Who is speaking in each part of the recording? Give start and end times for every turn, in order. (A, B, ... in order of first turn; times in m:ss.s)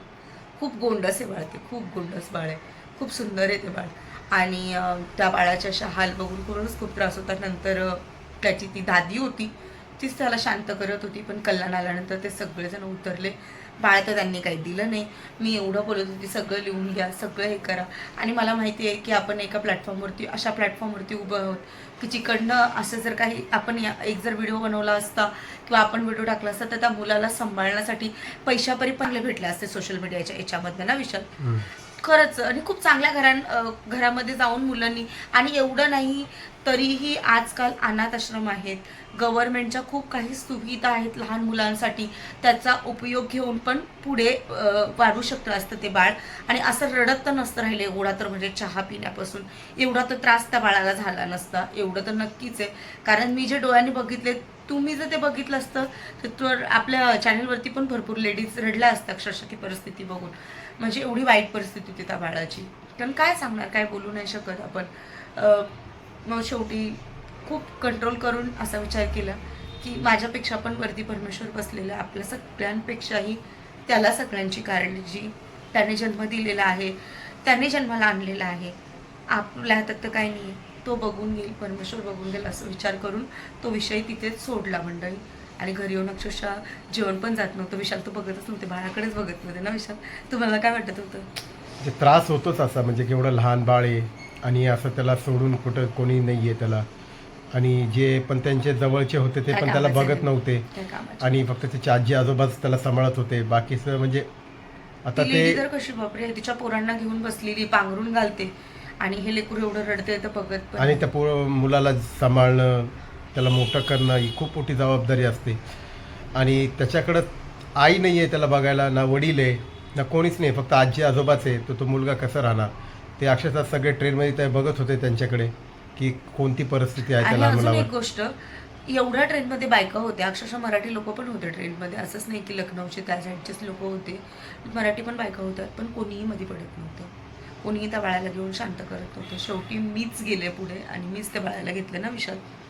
0:00.6-1:05.7 A
1:06.2-1:18.8 A
1:19.3-1:31.3 A
1:31.8-1:36.8 B
1:37.6-1:40.6 B
1:39.5-1:41.4 A
1:41.2-1:44.3 B
1:45.0-1:45.6 B
1:45.2-1:51.1 A
1:50.8-1:55.6 B
1:56.4-2:07.9 B
2:07.2-2:08.4 A
2:08.9-2:22.4 A